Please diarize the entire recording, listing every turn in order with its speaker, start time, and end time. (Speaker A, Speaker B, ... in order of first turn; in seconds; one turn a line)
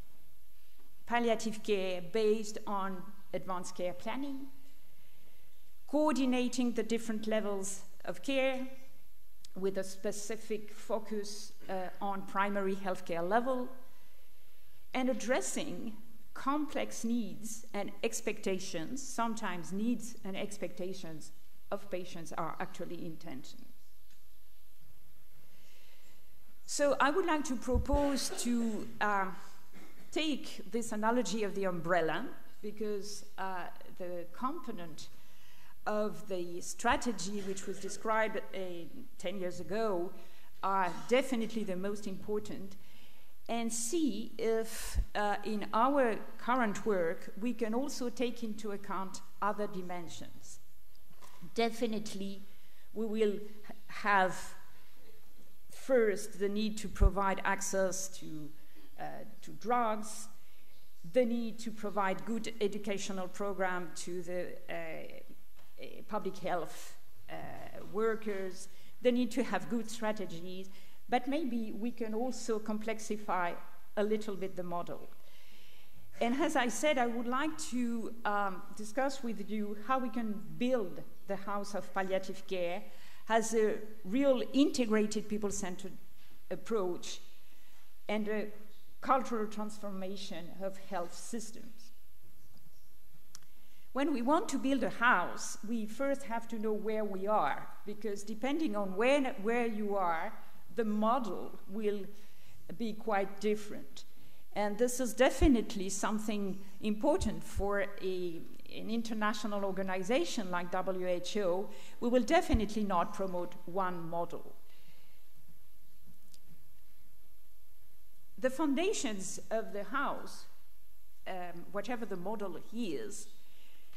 Speaker A: 1.1-4.5
Speaker A: 5.9-8.7
Speaker A: 9.6-13.7
Speaker A: 14.9-23.7
Speaker A: 26.7-29.4
Speaker A: 30.1-35.1
Speaker A: 35.9-42.8
Speaker A: 43.5-50.6
Speaker A: 51.5-54.6
Speaker A: 55.7-60.3
Speaker A: 61.0-65.3
Speaker A: 65.8-75.1
Speaker A: 76.2-86.0
Speaker A: 86.5-87.2
Speaker A: 88.1-91.9
Speaker A: 93.9-102.1
Speaker A: 102.7-114.6
Speaker A: 118.4-120.5
Speaker A: 121.3-123.3